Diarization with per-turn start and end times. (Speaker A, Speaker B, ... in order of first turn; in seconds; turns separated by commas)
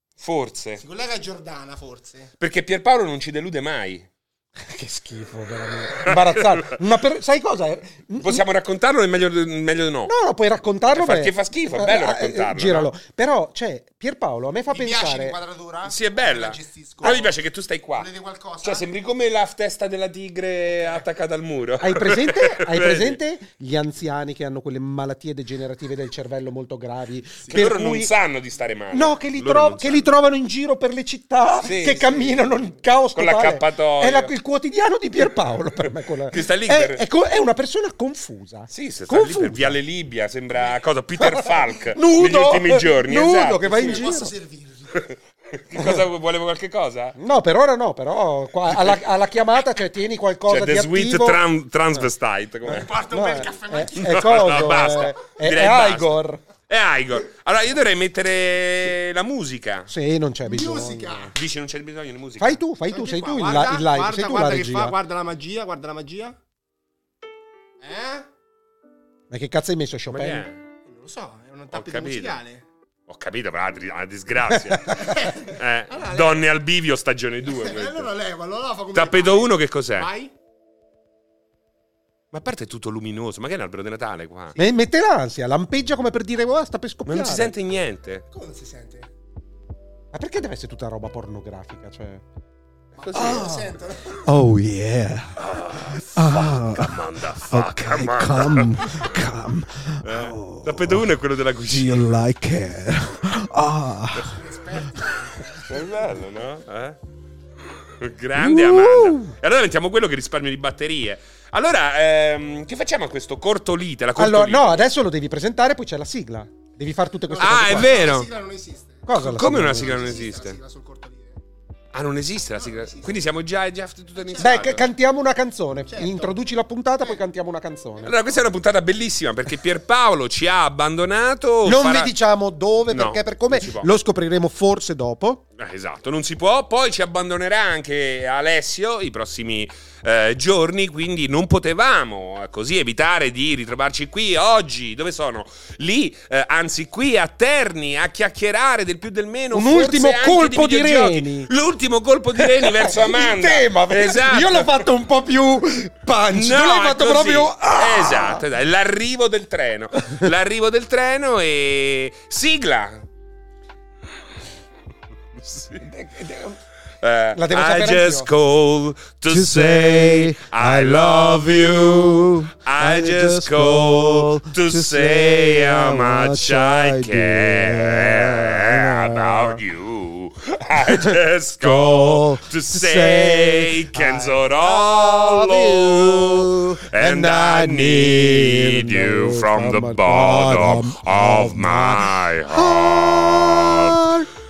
Speaker A: 0.2-0.8, Speaker B: 0.8-2.3, Speaker A: 2.4-4.1, Speaker C: 4.6-8.4, Speaker A: 6.0-6.7, Speaker A: 8.2-10.1, Speaker C: 10.1-15.4, Speaker A: 10.9-12.9, Speaker B: 14.7-17.3, Speaker A: 15.8-18.1, Speaker B: 17.9-18.9, Speaker A: 18.6-23.2, Speaker B: 20.7-21.0, Speaker C: 21.8-28.1, Speaker A: 27.5-30.1, Speaker C: 28.9-39.8, Speaker A: 31.6-32.4, Speaker A: 33.1-34.3, Speaker A: 36.3-37.0, Speaker A: 38.7-44.1, Speaker C: 41.2-44.3, Speaker B: 43.6-45.0, Speaker A: 44.9-47.2, Speaker C: 45.7-46.0, Speaker C: 47.1-51.4, Speaker A: 50.5-52.9, Speaker B: 52.6-55.1, Speaker C: 53.1-56.4, Speaker A: 53.9-59.9, Speaker C: 59.9-61.3, Speaker B: 60.4-61.4, Speaker A: 61.3-62.6, Speaker C: 62.4-65.0, Speaker B: 62.9-66.4, Speaker B: 67.8-68.3, Speaker C: 69.3-70.5, Speaker A: 70.1-70.6, Speaker B: 70.8-72.6, Speaker A: 71.7-72.4, Speaker A: 73.1-78.1, Speaker B: 74.8-76.4, Speaker B: 77.5-80.3, Speaker A: 78.9-80.1, Speaker A: 82.3-84.6, Speaker C: 84.5-87.5, Speaker A: 87.1-88.2, Speaker B: 88.3-89.1, Speaker C: 90.1-92.2, Speaker B: 93.0-94.3, Speaker A: 93.0-93.5, Speaker C: 93.1-101.1, Speaker A: 95.4-99.1, Speaker A: 100.0-102.2, Speaker C: 101.6-104.4, Speaker B: 104.2-105.6, Speaker A: 105.6-107.0, Speaker A: 108.0-114.9, Speaker C: 108.3-109.3, Speaker C: 114.2-118.1, Speaker B: 117.3-121.4, Speaker A: 117.4-118.3, Speaker C: 119.0-120.2, Speaker A: 119.1-120.6, Speaker A: 121.9-124.9, Speaker B: 122.5-123.2, Speaker B: 124.2-124.8, Speaker C: 124.4-128.1, Speaker B: 125.8-126.4, Speaker A: 128.0-132.1, Speaker B: 128.1-128.4, Speaker C: 131.6-135.4, Speaker A: 132.9-133.9, Speaker A: 135.6-154.8, Speaker C: 149.5-151.5, Speaker C: 152.3-158.4, Speaker A: 156.3-163.1, Speaker C: 160.0-160.3, Speaker A: 165.4-165.8, Speaker C: 165.8-166.6, Speaker A: 167.0-194.0, Speaker C: 167.3-168.3, Speaker C: 169.3-179.6, Speaker C: 180.8-194.3